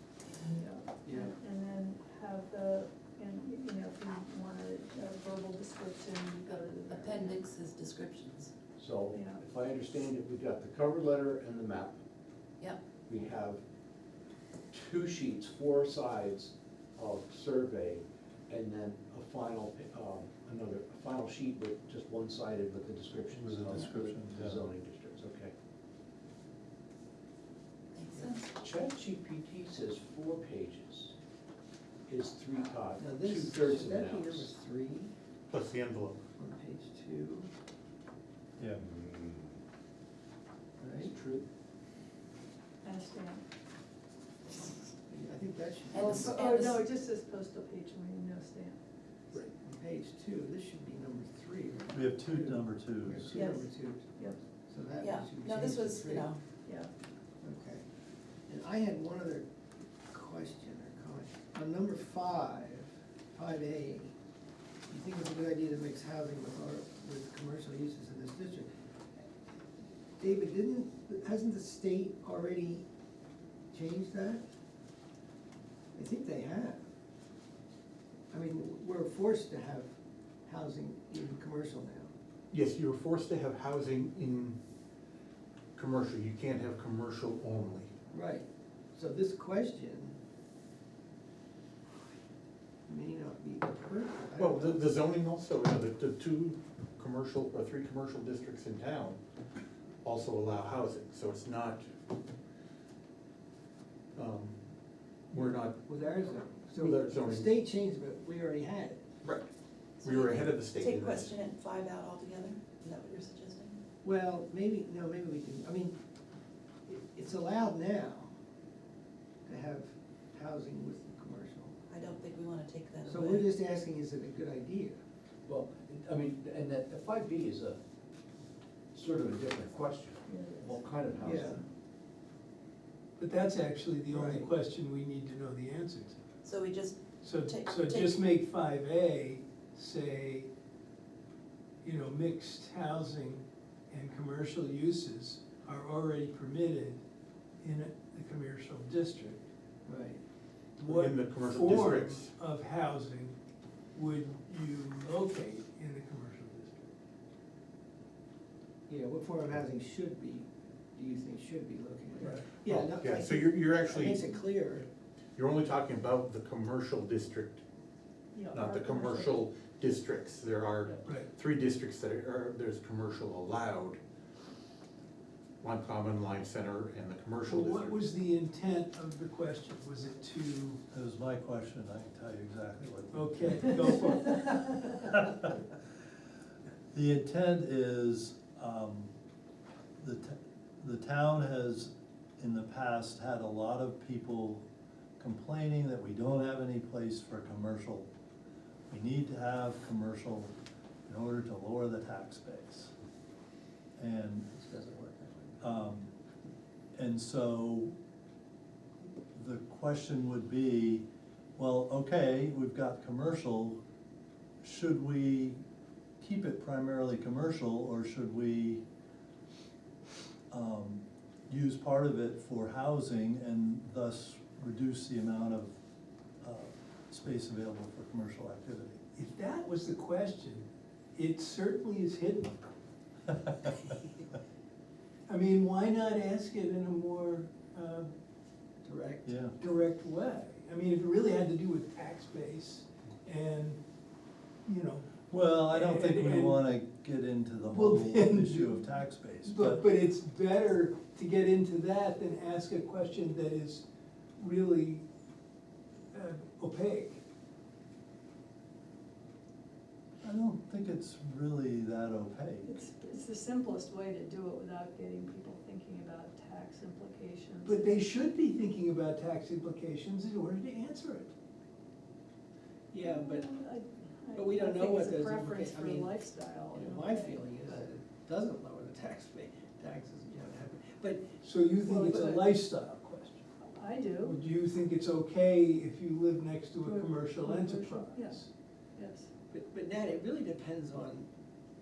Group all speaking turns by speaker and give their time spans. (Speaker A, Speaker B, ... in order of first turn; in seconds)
Speaker A: 0.5-7.4, 9.1-9.4, 42.8-43.4, 46.0-48.8, 56.6-56.9, 130.3-130.8, 168.3-169.4, 262.6-267.9, 273.0-277.3, 281.8-282.5, 283.6-284.3, 286.8-288.4, 288.9-289.3
Speaker B: 1.0-1.3, 33.0-35.1, 36.4-37.5, 40.8-41.1, 45.1-46.5, 49.3-56.3, 57.4-57.8, 58.5-59.5, 60.1-64.1, 64.9-68.7, 70.2-72.8, 73.7-74.4, 75.9-76.8, 78.3-79.9, 80.5-82.1, 88.1-90.2, 92.8-94.8, 105.3-109.0, 114.0-115.9, 116.9-118.3, 119.5-121.8, 123.0-125.0, 131.2-131.6, 134.1-134.5, 149.8-150.2, 158.9-164.9, 204.5-205.6, 238.8-239.3, 272.9-273.5, 274.3-276.1, 276.7-281.3, 289.5-291.3
Speaker C: 6.5-8.5, 27.9-28.5, 45.9-46.8, 55.0-56.4, 110.0-113.8, 121.9-123.5, 136.4-138.2
Speaker D: 8.8-12.0, 13.1-13.6, 14.7-25.5, 28.6-31.1, 32.1-34.5, 38.8-39.6, 41.0-41.4, 125.5-127.8, 128.9-131.7
Speaker E: 23.3-24.6, 38.6-38.8, 51.9-53.4, 180.9-185.6, 186.9-189.1, 190.0-194.7, 195.2-198.1, 198.9-200.5, 201.1-202.9, 204.0-204.5, 205.6-206.1, 206.9-207.9, 209.3-213.8, 214.6-215.6, 216.2-218.8, 220.5-225.8, 226.4-229.0, 239.2-239.6, 245.3-249.8, 260.2-262.7
Speaker F: 35.5-36.2, 82.5-84.6, 85.8-87.9, 94.4-99.2, 100.0-101.9, 104.1-104.6, 105.3-105.8, 106.8-107.5, 109.2-109.5, 110.0-111.3, 150.8-152.3, 162.6-164.4, 165.3-167.6, 168.5-174.0, 175.6-178.1
Speaker G: 133.2-136.2, 137.2-140.5, 141.8-147.0, 147.6-149.4, 150.8-153.3, 153.9-156.9, 171.0-171.3, 177.4-180.8, 183.1-184.4, 229.1-232.6, 235.3-238.1, 239.6-243.8, 244.6-246.6, 247.7-248.9, 249.4-253.8, 254.4-255.0, 256.1-257.2, 267.6-271.3, 277.4-277.6, 281.4-283.5, 284.2-288.5